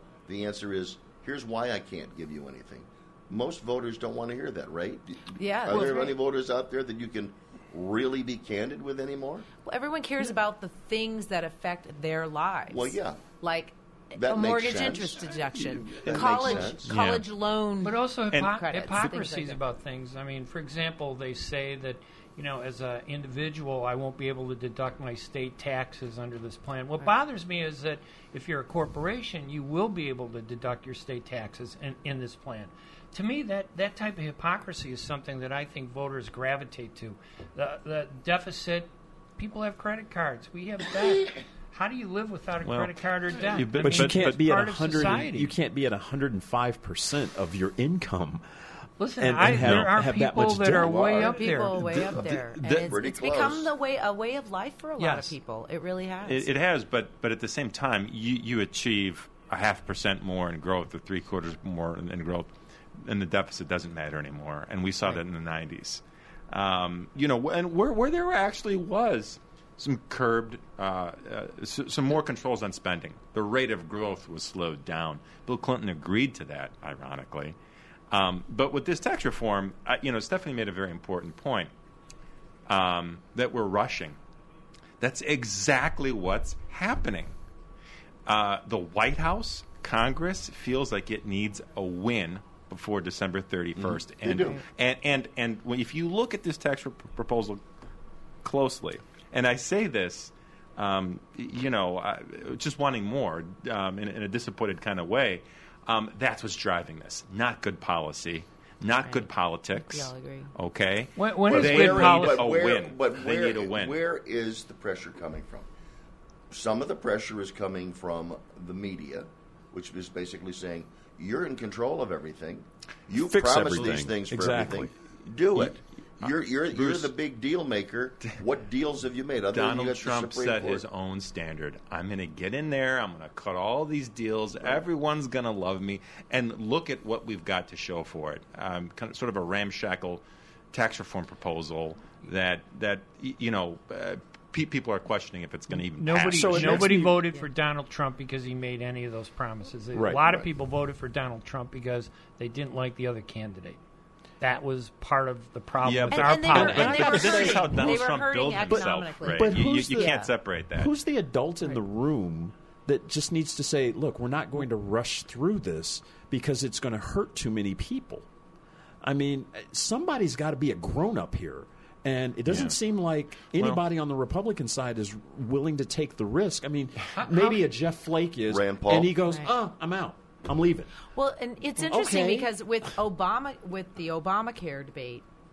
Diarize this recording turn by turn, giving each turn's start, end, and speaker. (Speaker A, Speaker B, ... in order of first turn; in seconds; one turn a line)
Speaker A: 0.3-9.5
Speaker B: 5.3-6.1
Speaker B: 9.7-19.6
Speaker A: 12.7-13.2
Speaker A: 14.2-15.2
Speaker C: 15.5-17.2
Speaker A: 16.0-16.9
Speaker D: 17.8-45.5
Speaker C: 42.6-45.0
Speaker E: 43.8-48.4
Speaker D: 49.0-51.8
Speaker E: 49.2-51.5
Speaker C: 49.4-49.9
Speaker B: 51.1-56.5
Speaker C: 51.9-52.9
Speaker A: 52.1-53.7
Speaker D: 55.0-55.3
Speaker C: 56.2-77.5
Speaker C: 78.1-81.7
Speaker C: 82.7-84.2
Speaker C: 85.0-87.3
Speaker C: 88.2-97.6
Speaker A: 93.8-94.6
Speaker C: 98.4-114.0
Speaker B: 109.0-110.5
Speaker D: 111.2-112.5
Speaker A: 111.5-115.7
Speaker A: 116.5-130.8
Speaker E: 123.1-124.9
Speaker C: 125.6-127.1
Speaker C: 129.5-146.9
Speaker D: 145.9-153.8
Speaker E: 146.3-147.2
Speaker E: 149.9-150.4
Speaker D: 154.4-157.6
Speaker C: 155.8-160.9
Speaker B: 156.1-160.3
Speaker E: 156.5-158.1
Speaker E: 158.7-160.2
Speaker E: 160.7-168.2
Speaker E: 169.0-180.9
Speaker C: 172.5-172.8
Speaker C: 173.5-173.8
Speaker D: 177.2-177.6
Speaker A: 178.4-179.2
Speaker B: 181.1-185.2
Speaker E: 181.8-182.5